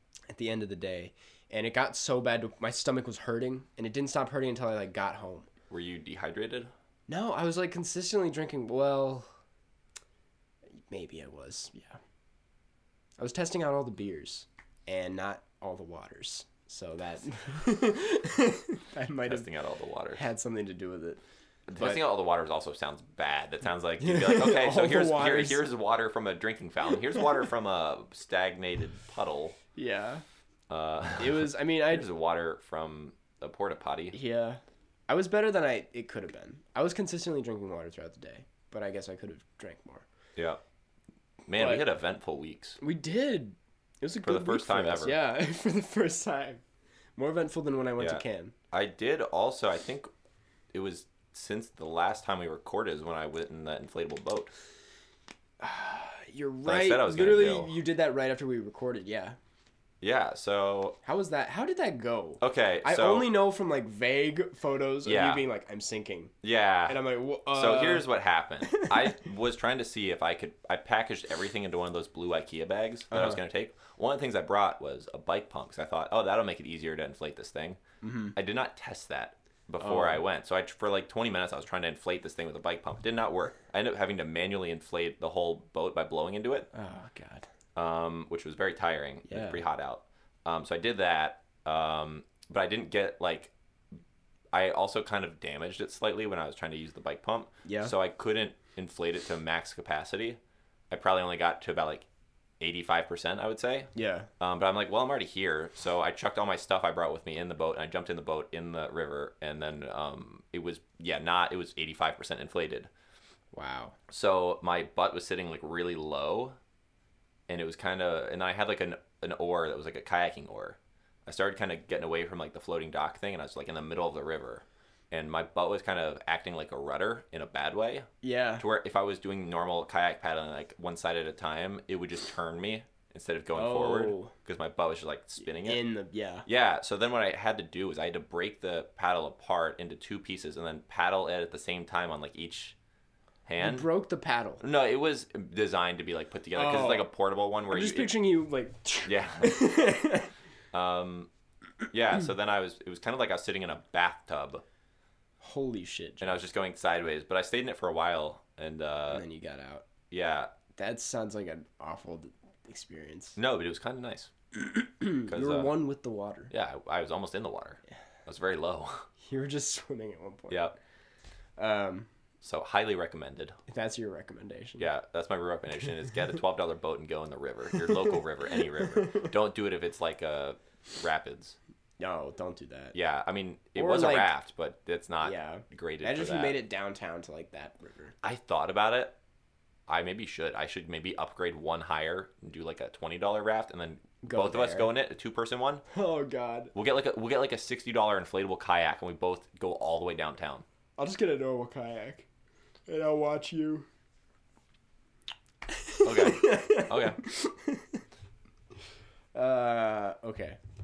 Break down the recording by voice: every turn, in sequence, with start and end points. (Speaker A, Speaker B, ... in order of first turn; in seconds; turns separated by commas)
Speaker A: 0.3-5.5, Speaker B: 5.7-6.7, Speaker A: 7.1-9.3, Speaker A: 10.9-12.0, Speaker A: 13.2-19.5, Speaker B: 19.2-20.2, Speaker A: 20.1-21.2, Speaker B: 21.7-29.6, Speaker A: 21.8-22.0, Speaker A: 24.0-25.6, Speaker A: 29.7-30.2, Speaker B: 30.7-34.1, Speaker A: 31.2-32.1, Speaker A: 34.1-40.0, Speaker B: 41.5-42.8, Speaker A: 41.6-41.8, Speaker A: 42.8-46.6, Speaker B: 44.2-45.2, Speaker A: 47.2-48.5, Speaker B: 48.0-50.1, Speaker B: 50.7-54.5, Speaker A: 55.6-59.4, Speaker B: 56.6-57.7, Speaker B: 60.0-61.0, Speaker A: 61.0-66.3, Speaker B: 62.4-63.3, Speaker B: 65.0-65.4, Speaker B: 66.4-67.0, Speaker A: 66.9-68.0, Speaker B: 67.5-77.8, Speaker A: 68.6-69.2, Speaker A: 73.1-73.4, Speaker A: 78.0-78.3, Speaker B: 78.3-86.7, Speaker A: 79.8-80.2, Speaker A: 86.7-87.5, Speaker B: 87.8-93.5, Speaker A: 89.2-89.6, Speaker B: 94.5-100.4, Speaker A: 97.6-97.9, Speaker B: 100.9-102.1, Speaker B: 102.6-112.9, Speaker A: 103.9-104.3, Speaker A: 113.5-114.0, Speaker B: 114.1-116.6, Speaker B: 117.5-128.1, Speaker A: 128.2-128.6, Speaker B: 128.6-135.8, Speaker A: 133.5-134.3, Speaker A: 135.4-136.4, Speaker B: 136.4-142.8, Speaker B: 143.4-143.9, Speaker A: 143.6-144.6, Speaker B: 144.6-148.1, Speaker A: 146.5-147.1, Speaker A: 147.7-150.3, Speaker B: 149.1-149.8, Speaker B: 150.7-151.3, Speaker B: 151.9-154.6, Speaker A: 155.4-156.4, Speaker B: 156.2-159.2, Speaker A: 159.1-159.9, Speaker B: 160.1-160.5, Speaker A: 160.8-163.4, Speaker B: 163.4-164.3, Speaker A: 164.5-166.5, Speaker B: 165.3-165.7, Speaker B: 166.5-169.1, Speaker A: 169.2-170.7, Speaker B: 170.5-170.8, Speaker A: 171.6-172.1, Speaker B: 172.4-173.6, Speaker A: 173.7-174.9, Speaker B: 174.8-181.6, Speaker A: 178.6-179.3, Speaker A: 182.0-182.9, Speaker B: 182.9-186.6, Speaker A: 183.8-184.3, Speaker A: 185.2-188.1, Speaker B: 188.2-189.2, Speaker B: 189.9-195.8, Speaker A: 194.2-194.9, Speaker A: 195.9-196.7, Speaker B: 196.7-200.6, Speaker A: 201.0-202.3, Speaker A: 202.9-203.9, Speaker A: 205.7-208.0, Speaker B: 206.0-207.2, Speaker A: 209.3-210.6